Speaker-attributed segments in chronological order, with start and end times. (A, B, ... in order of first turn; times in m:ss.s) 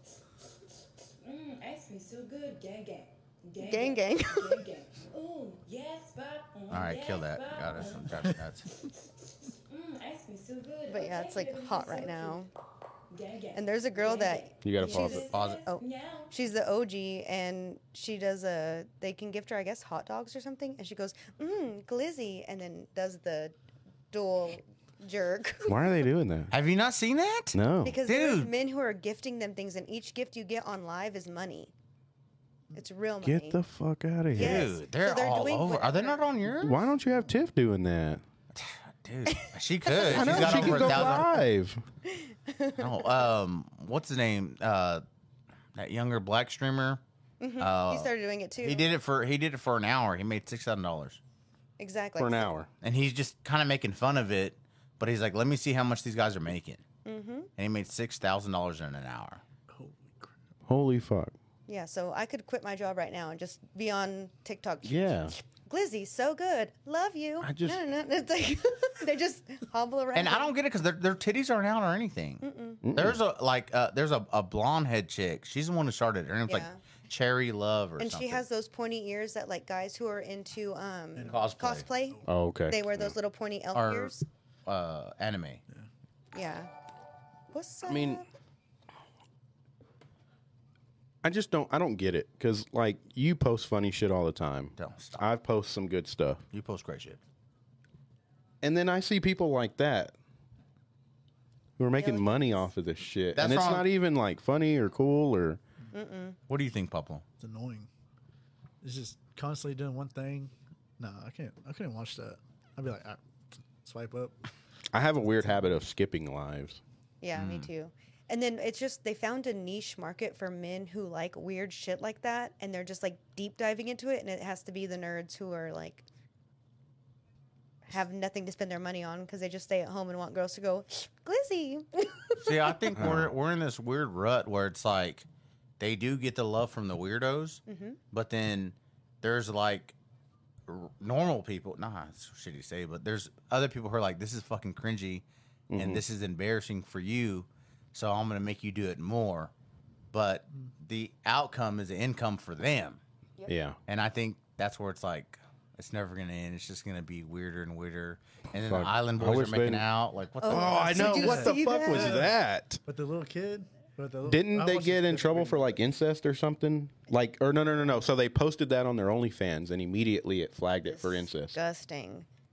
0:01.2-0:08.4 A
0:03.6-0:04.7 B
0:06.7-0:08.7 C
0:09.5-0:12.5 A
0:10.9-0:12.5 B
0:13.1-0:16.3 A
0:13.5-0:23.6 B
0:14.6-0:15.2 D
0:15.3-0:15.6 C
0:24.1-0:26.0 B
0:25.7-0:26.5 D
0:26.5-0:28.5 C
0:27.5-0:28.0 D
0:27.8-0:31.7 B
0:32.7-0:33.6 B
0:33.2-0:34.7 D
0:34.3-0:36.3 B
0:34.4-0:36.8 C
0:36.6-0:38.2 D
0:38.5-0:41.4 C
0:39.3-0:41.2 B
0:40.0-0:41.8 D
0:42.1-0:43.2 B
0:42.8-0:45.0 C
0:45.8-0:47.0 C
0:47.4-0:48.9 B
0:47.6-0:51.2 C
0:51.8-0:52.5 B
0:52.2-0:52.7 D
0:52.8-0:56.8 C
0:57.0-0:57.5 B
0:57.6-0:59.4 C
0:59.7-1:00.4 E
1:00.7-1:01.3 D
1:01.7-1:10.5 B
1:04.8-1:05.4 D
1:07.4-1:07.8 D
1:10.1-1:12.4 C
1:12.4-1:12.8 B
1:12.8-1:13.2 D
1:12.9-1:18.4 C
1:16.5-1:16.8 B
1:18.0-1:24.3 B
1:21.2-1:21.5 E
1:21.2-1:21.9 C
1:22.3-1:23.2 D
1:23.7-1:24.1 C
1:24.7-1:25.6 C
1:26.3-1:26.7 B
1:27.5-1:28.3 B
1:27.9-1:28.2 D
1:31.2-1:36.4 D
1:34.8-1:35.3 C
1:36.5-1:37.2 C
1:38.6-1:40.2 D
1:41.8-1:45.6 D
1:42.0-1:42.7 B
1:43.4-1:43.9 C
1:45.9-1:46.4 B
1:46.5-1:47.2 C
1:47.4-1:47.9 E
1:48.8-1:53.2 E
1:53.8-1:54.4 E
1:54.9-1:56.8 D
1:57.2-2:06.0 B
1:57.4-1:57.7 C
2:07.9-2:12.9 B
2:12.4-2:15.3 C
2:13.0-2:13.3 D
2:15.8-2:20.0 C
2:17.7-2:18.0 B
2:20.7-2:25.2 C
2:25.7-2:26.0 D
2:25.8-2:29.5 C
2:30.1-2:33.0 C
2:33.5-2:33.8 D
2:33.9-2:41.3 C
2:38.6-2:39.9 D
2:40.4-2:42.3 B
2:40.5-2:42.8 D
2:41.1-2:42.3 E
2:42.9-2:45.7 E
2:44.2-2:51.6 D
2:50.8-2:52.3 B